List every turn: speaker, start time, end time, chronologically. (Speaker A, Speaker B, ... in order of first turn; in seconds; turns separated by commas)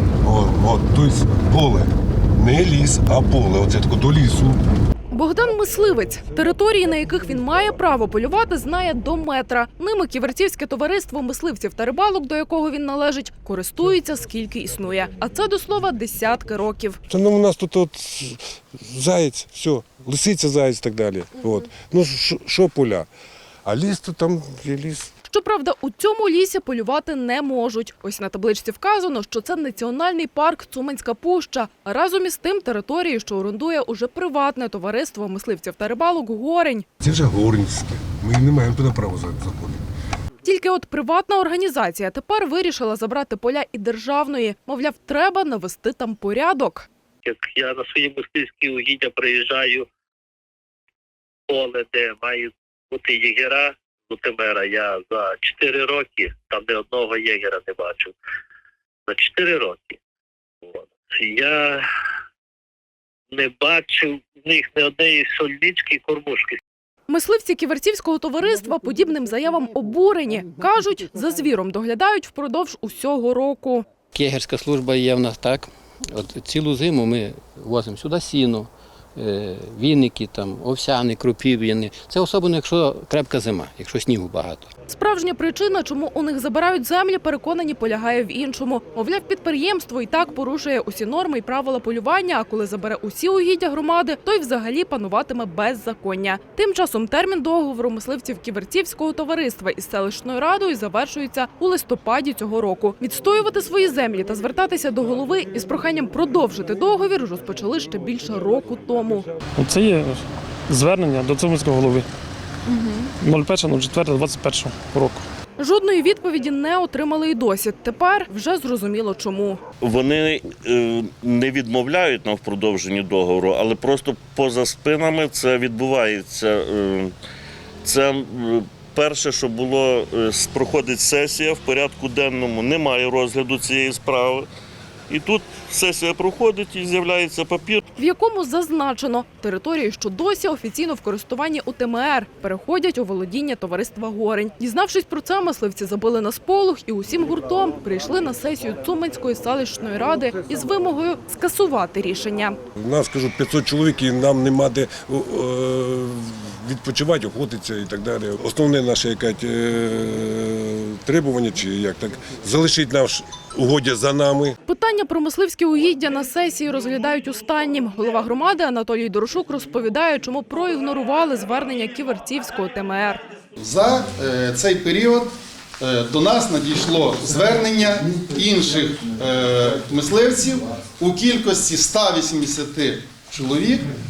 Speaker A: 0.2-4.6, Speaker B: 5.1-17.0, Speaker A: 17.1-23.1, Speaker A: 23.6-25.1, Speaker B: 25.3-36.9, Speaker A: 37.0-39.8, Speaker B: 40.4-46.9, Speaker C: 47.2-49.9, Speaker C: 51.5-58.1, Speaker C: 59.1-60.0, Speaker C: 60.7-61.8, Speaker C: 63.3-66.6, Speaker B: 67.1-73.9, Speaker D: 74.1-84.7, Speaker B: 84.9-109.2, Speaker E: 109.6-112.1, Speaker B: 112.7-113.1, Speaker E: 113.2-115.2, Speaker B: 115.6-119.6, Speaker F: 119.8-127.1, Speaker F: 127.8-134.5, Speaker F: 135.1-137.9, Speaker B: 138.0-152.6, Speaker A: 152.8-164.6, Speaker B: 164.7-173.2, Speaker G: 173.6-183.9